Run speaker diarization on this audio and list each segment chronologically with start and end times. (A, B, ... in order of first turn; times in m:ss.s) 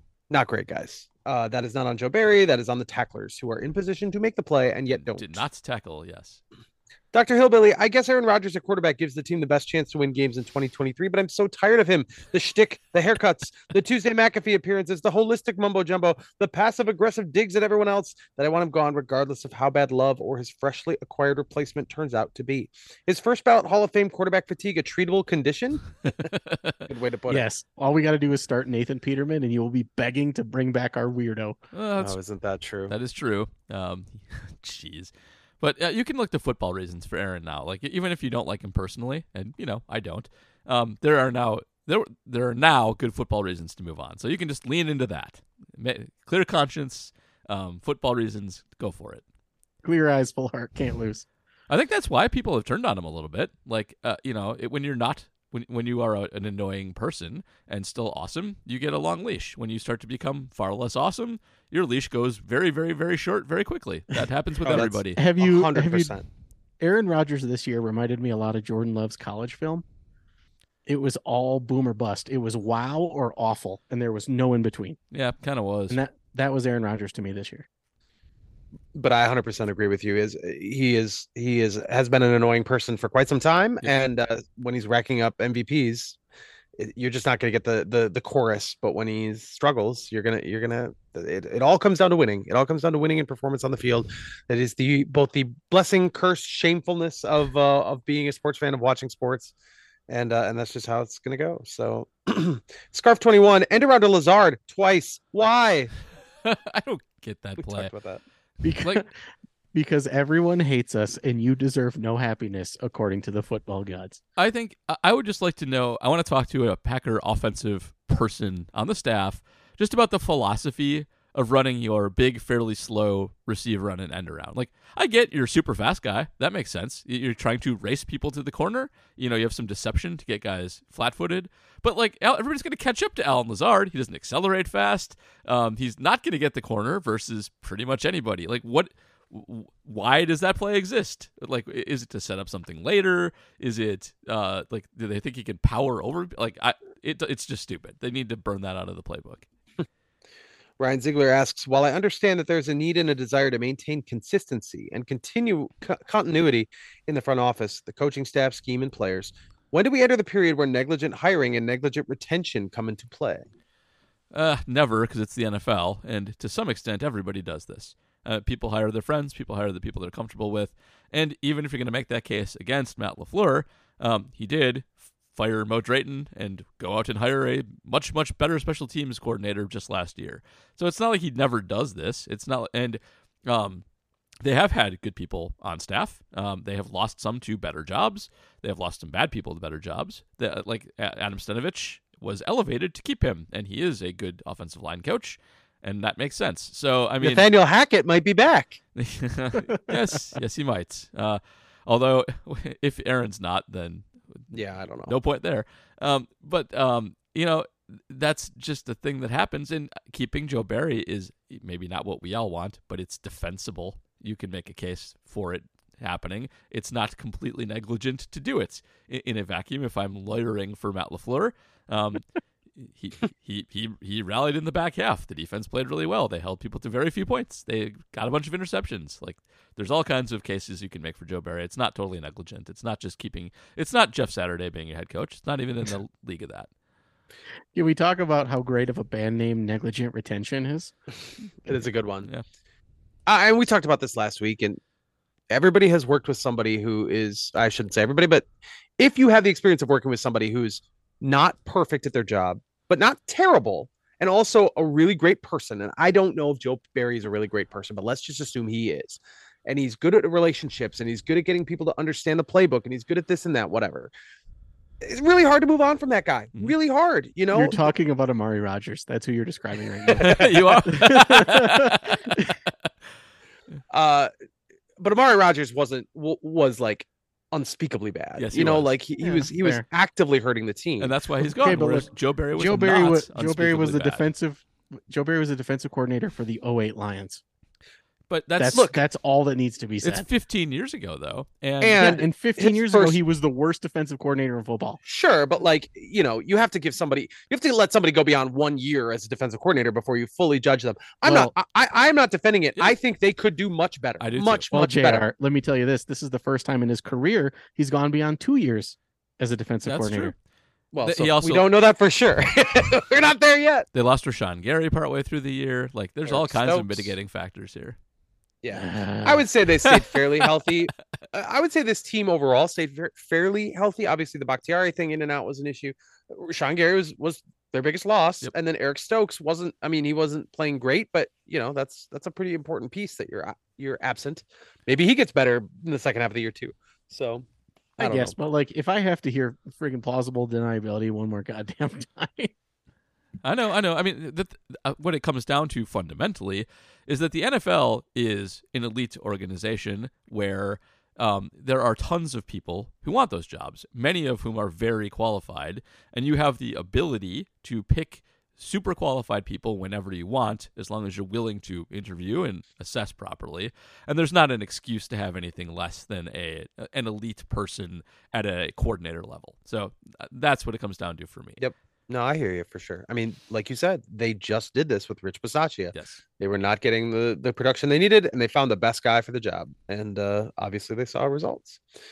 0:00.3-0:05.4 A
0:05.0-0:06.4 B
0:07.1-0:25.9 A
0:26.3-0:26.8 B
0:26.9-0:27.4 A
0:27.3-0:31.6 C
0:31.7-0:32.2 B
0:32.0-0:32.9 A
0:32.9-0:49.2 B
0:49.8-0:51.3 C
0:51.7-1:05.2 B
1:04.6-1:06.2 A
1:05.2-1:06.1 C
1:06.8-1:09.8 C
1:10.9-1:15.0 C
1:15.1-1:16.0 B
1:15.9-1:17.7 C
1:19.0-1:26.2 A
1:26.8-1:39.5 A
1:40.1-1:45.9 A
1:46.4-1:47.9 B
1:47.6-1:48.2 A
1:48.6-1:49.1 C
1:49.7-1:54.2 C
1:54.4-2:29.4 B
2:30.8-2:43.4 A
2:44.3-3:03.8 B
3:04.4-3:17.4 B
3:17.2-3:18.8 A
3:19.0-3:24.4 B
3:24.5-3:25.1 A
3:25.1-3:42.3 B
3:42.8-3:56.7 B
3:57.7-4:00.9 C
4:01.7-4:02.3 A
4:03.3-4:04.8 A
4:05.5-4:08.5 A
4:09.0-4:24.1 A
4:25.0-4:27.9 A
4:27.5-4:32.5 C
4:30.2-4:32.4 B
4:30.2-4:30.8 A
4:33.9-4:34.3 A
4:35.0-4:41.1 A
4:38.4-4:38.9 B
4:39.2-4:39.8 C
4:41.0-4:44.2 B
4:41.5-4:47.4 C
4:48.3-4:48.9 B
4:48.6-4:50.3 C
4:50.0-4:52.1 B
4:51.8-4:53.2 A
4:52.0-4:55.0 C
4:55.1-5:05.2 A
5:01.2-5:01.5 C
5:04.2-5:04.7 B
5:04.7-5:10.3 C
5:09.9-5:10.3 B
5:10.9-5:13.9 A
5:11.0-5:11.6 B
5:13.9-5:18.0 B
5:16.3-5:17.1 A
5:18.6-5:37.4 A
5:18.7-5:19.4 C
5:38.0-5:38.4 A
5:38.0-5:42.5 C
5:43.4-6:11.6 B
6:11.6-6:21.8 A
6:15.9-6:16.2 B